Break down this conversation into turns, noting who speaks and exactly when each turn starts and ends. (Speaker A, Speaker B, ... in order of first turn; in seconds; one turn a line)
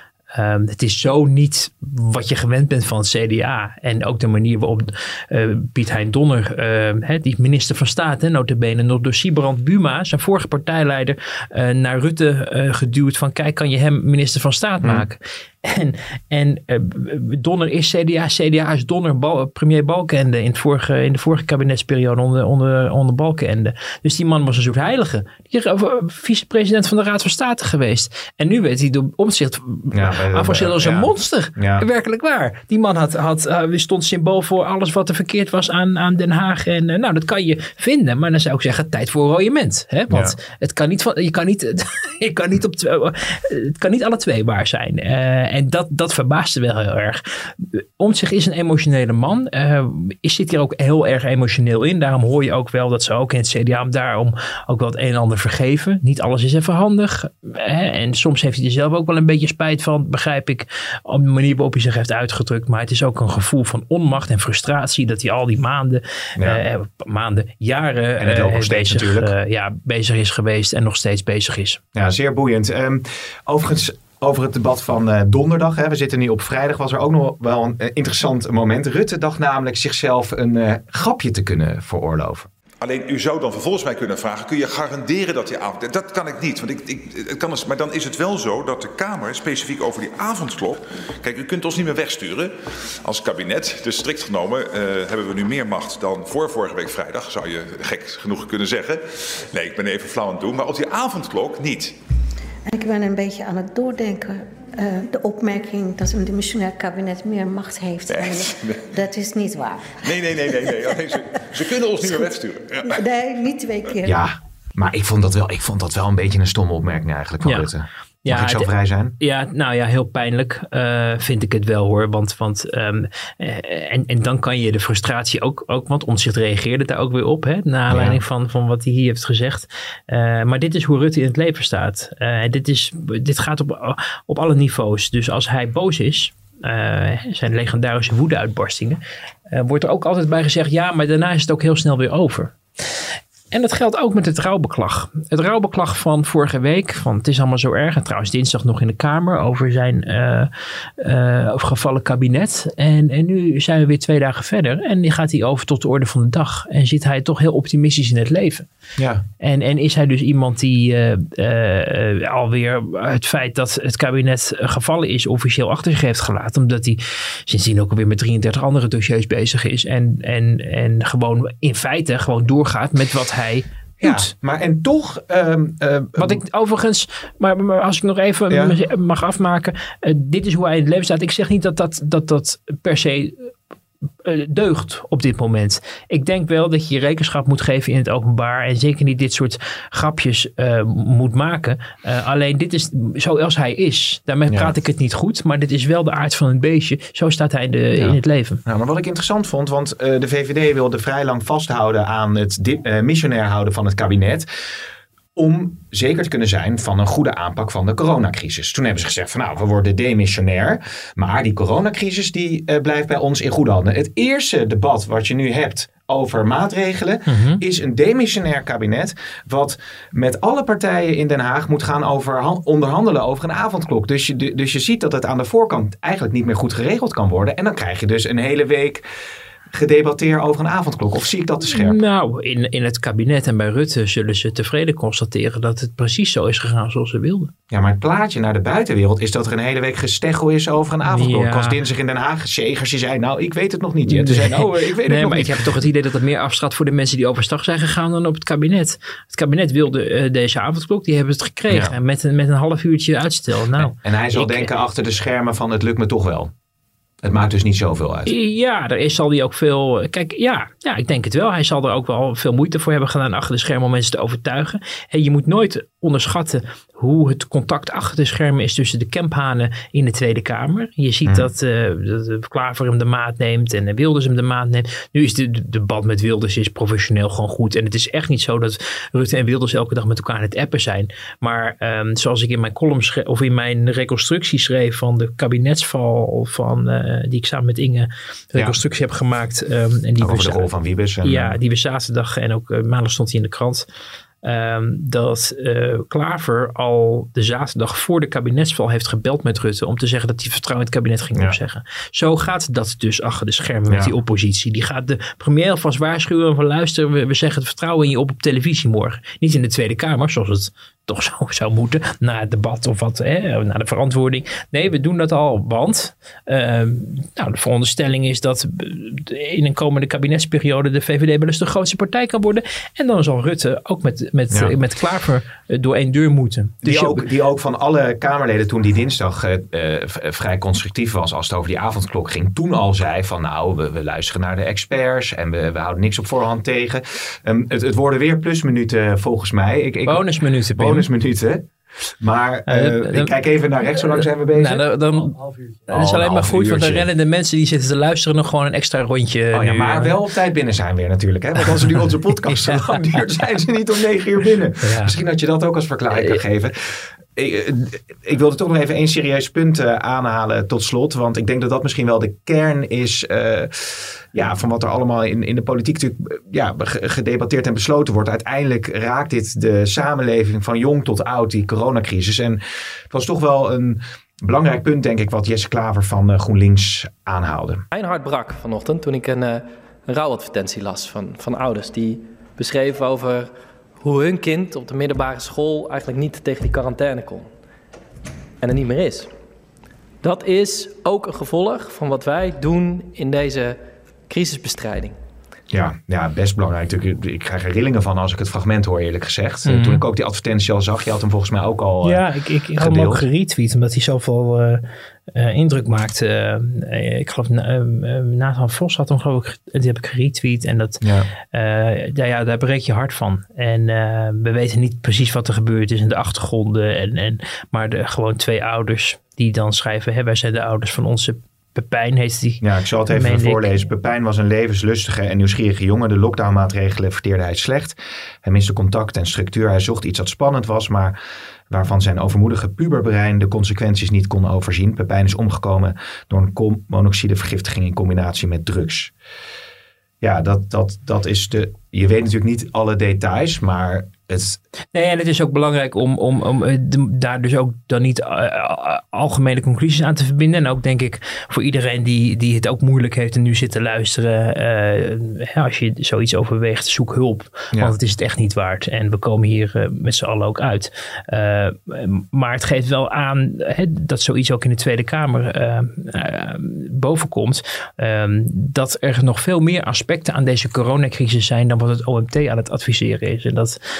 Speaker A: 0.3-71.8
Speaker B: 29.9-31.8
Speaker B: 40.1-40.4
Speaker B: 68.2-69.3
Speaker B: 71.9-82.5
Speaker C: 82.8-92.5
Speaker C: 93.0-101.9
Speaker D: 102.7-110.9
Speaker C: 108.1-108.8
Speaker C: 110.0-113.0
Speaker D: 112.8-114.1
Speaker B: 114.0-119.1
Speaker A: 118.2-139.0
Speaker B: 127.9-128.2
Speaker A: 139.5-142.5
Speaker A: 143.5-158.7
Speaker B: 159.0-159.2
Speaker A: 159.4-174.3
Speaker B: 174.0-176.4
Speaker A: 176.2-183.5
Speaker B: 178.5-178.8
Speaker A: 184.2-198.6
Speaker B: 198.0-204.5
Speaker B: 205.3-229.0
Speaker A: 217.3-217.6
Speaker B: 229.7-232.0
Speaker A: 231.7-237.5
Speaker B: 237.7-245.8
Speaker A: 241.0-241.8
Speaker A: 244.1-254.7
Speaker B: 253.8-256.5
Speaker B: 257.2-258.3
Speaker A: 258.2-290.7
Speaker B: 290.2-291.6
Speaker A: 291.2-293.9
Speaker A: 294.4-327.3
Speaker B: 326.8-341.7
Speaker A: 340.1-341.1
Speaker B: 342.2-344.9
Speaker A: 342.7-343.4
Speaker A: 344.0-345.4
Speaker A: 345.9-350.1
Speaker B: 345.9-347.1
Speaker B: 349.5-377.8
Speaker A: 352.5-353.0
Speaker A: 354.8-355.1
Speaker E: 377.9-387.5
Speaker E: 388.6-389.3
Speaker E: 390.2-395.2
Speaker B: 395.7-402.2
Speaker A: 399.6-400.0
Speaker A: 402.0-404.8
Speaker B: 402.8-403.2
Speaker A: 405.3-411.0
Speaker B: 411.0-411.3
Speaker A: 411.5-423.8
Speaker B: 422.6-431.2
Speaker B: 431.7-439.1
Speaker B: 440.2-444.6
Speaker A: 444.9-473.8